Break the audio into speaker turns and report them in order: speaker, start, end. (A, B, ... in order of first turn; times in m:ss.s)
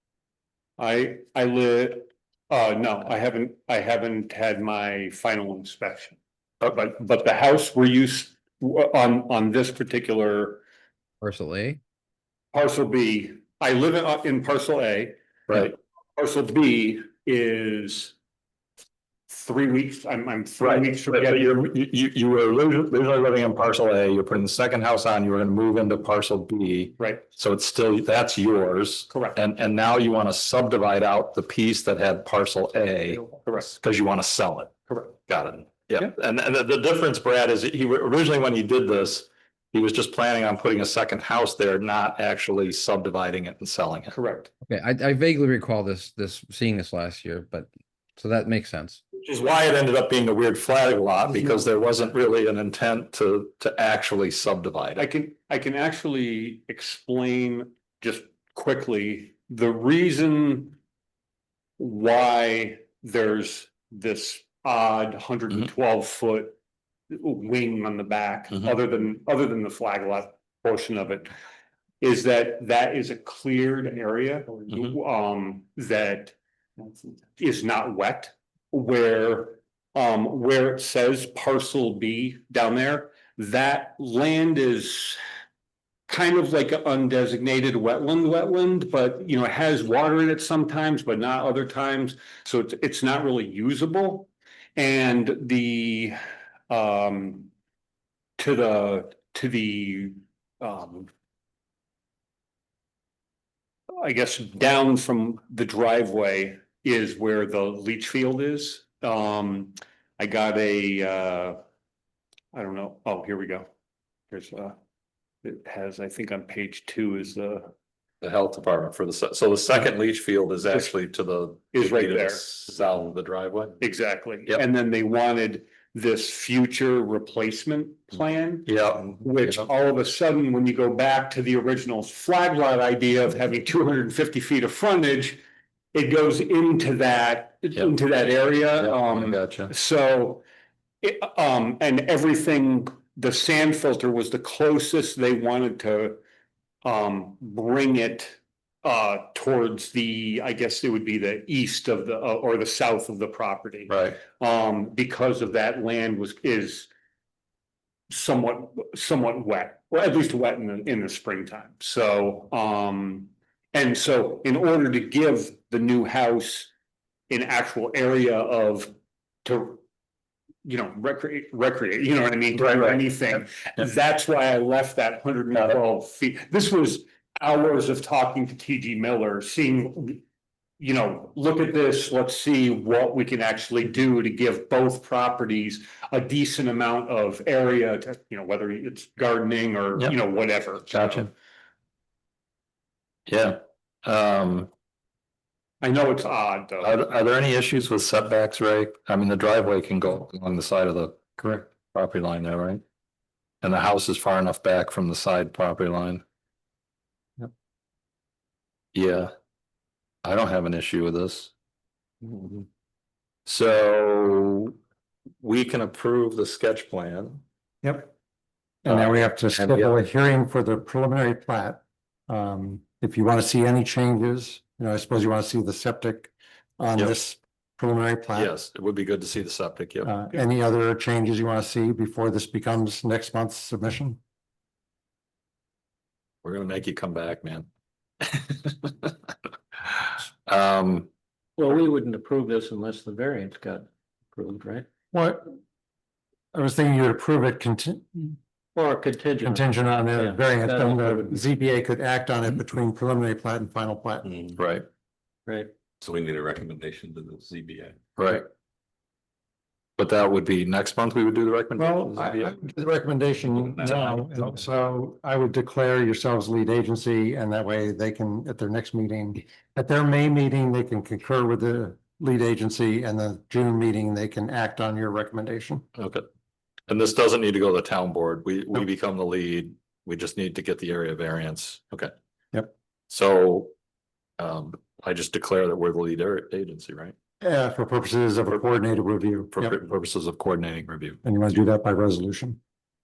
0:00.8-0:10.6 A
0:11.2-0:11.8 B
0:12.5-0:18.2 A
0:19.3-0:21.5 A
0:20.6-0:34.7 C
0:27.0-0:27.2 A
0:29.1-0:29.4 A
0:34.9-0:35.2 A
0:35.3-0:44.1 C
0:44.1-0:44.5 A
0:44.7-0:49.0 B
0:49.2-0:55.1 C
0:55.0-1:00.8 A
1:01.8-1:06.6 A
1:07.1-1:11.3 A
1:12.0-1:16.4 A
1:17.4-1:25.2 A
1:26.1-1:36.2 A
1:36.7-1:37.5 A
1:38.4-1:41.1 A
1:44.0-1:51.6 A
1:52.5-1:53.7 A
1:54.3-1:54.8 A
1:55.4-1:57.7 A
1:58.2-2:03.8 C
2:01.7-2:02.4 A
2:03.8-2:15.4 A
2:08.7-2:09.7 C
2:15.9-2:20.4 A
2:18.8-2:19.7 C
2:21.0-2:26.2 A
2:26.8-2:36.9 A
2:33.9-2:34.2 C
2:38.1-2:46.7 A
2:47.3-2:48.9 A
2:49.4-2:49.8 A
2:50.6-3:00.2 A
2:52.6-2:53.0 C
3:00.8-3:11.3 A
3:10.9-3:11.3 C
3:13.3-3:14.7 C
3:15.8-3:17.0 A
3:16.8-3:22.8 C
3:23.6-3:26.2 C
3:28.9-3:29.3 C
3:30.2-3:31.5 C
3:33.5-3:34.8 C
3:35.4-3:37.4 C
3:37.8-3:38.1 D
3:38.8-3:48.5 D
3:38.9-3:39.9 C
3:48.4-3:50.1 C
3:50.0-3:54.2 D
3:56.4-3:57.7 C
3:58.2-3:59.1 C
3:59.8-4:01.1 C
4:01.6-4:04.9 E
4:05.1-4:05.6 D
4:06.5-4:08.4 D
4:08.8-4:11.4 E
4:09.4-4:14.3 D
4:14.6-4:14.9 C
4:16.0-4:18.0 F
4:18.2-4:18.5 C
4:20.0-4:22.6 C
4:21.8-4:35.8 D
4:23.6-4:24.3 F
4:36.0-4:36.2 C
4:36.9-4:42.1 C
4:43.1-4:43.7 C
4:44.4-4:47.2 C
4:47.4-4:49.7 D
4:49.5-4:51.2 C
4:51.2-4:52.6 D